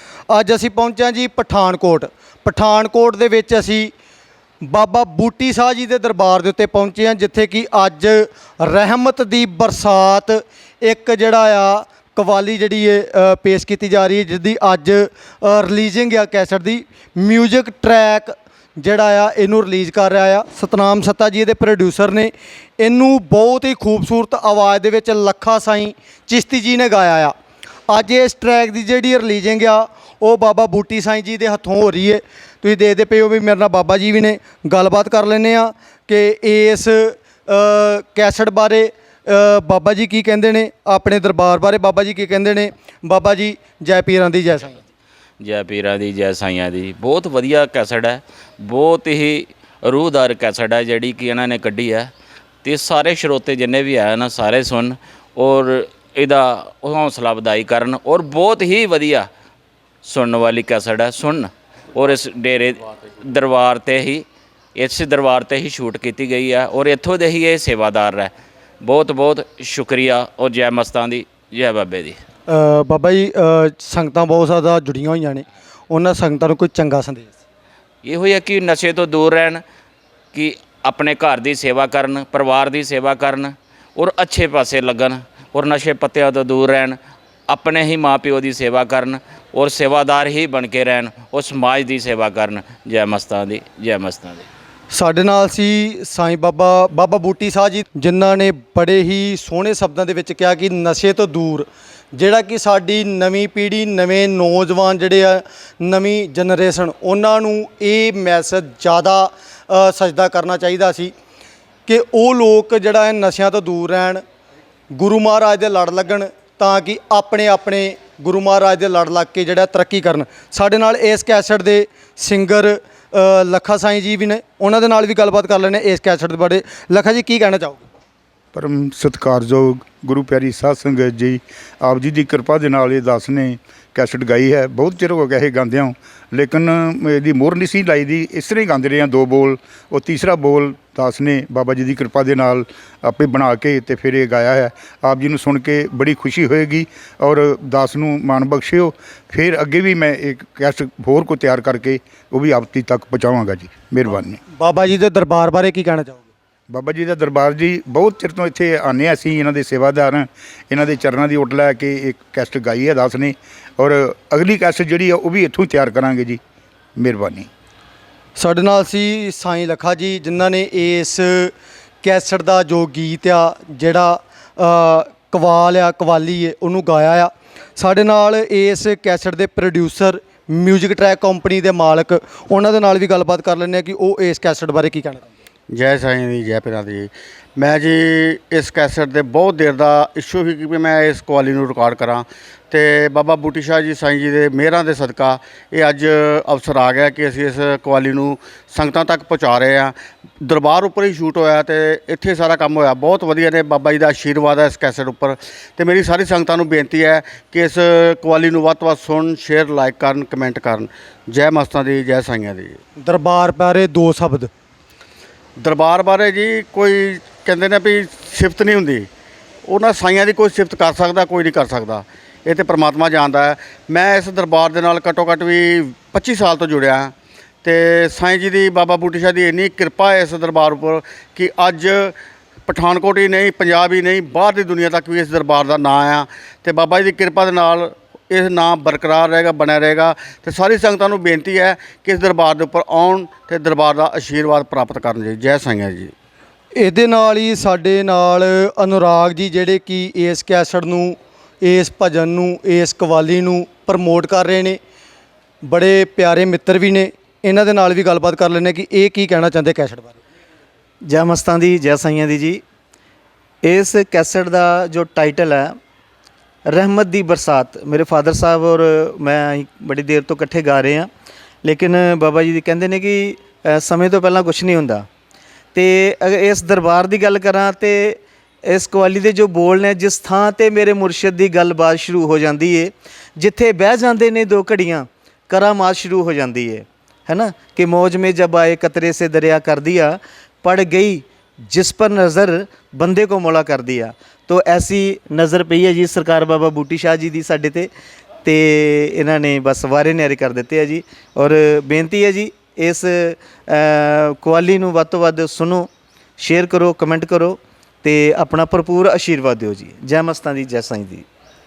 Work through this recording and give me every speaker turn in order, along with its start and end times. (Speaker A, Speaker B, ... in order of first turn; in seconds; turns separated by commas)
Speaker A: 0.3-3.9, Speaker A: 4.6-27.3, Speaker A: 27.9-44.8, Speaker B: 45.4-52.1, Speaker B: 52.6-59.3, Speaker B: 60.0-64.2, Speaker B: 64.8-72.2, Speaker A: 72.5-77.3, Speaker B: 78.0-79.6, Speaker B: 80.3-87.0, Speaker B: 87.5-94.5, Speaker A: 94.9-111.1, Speaker A: 111.9-114.2, Speaker A: 114.9-127.8, Speaker C: 128.5-154.4, Speaker A: 154.6-156.3, Speaker C: 156.7-166.4, Speaker C: 167.0-167.5, Speaker A: 168.4-185.2, Speaker D: 185.7-212.8, Speaker A: 213.1-214.5, Speaker D: 215.6-219.1, Speaker D: 219.7-227.1, Speaker D: 227.6-232.2, Speaker D: 232.7-246.1, Speaker A: 246.8-254.8, Speaker A: 255.7-260.2, Speaker E: 261.1-262.6, Speaker E: 263.6-265.7, Speaker E: 266.7-271.1, Speaker E: 271.6-275.0, Speaker E: 275.8-297.9, Speaker E: 298.4-311.3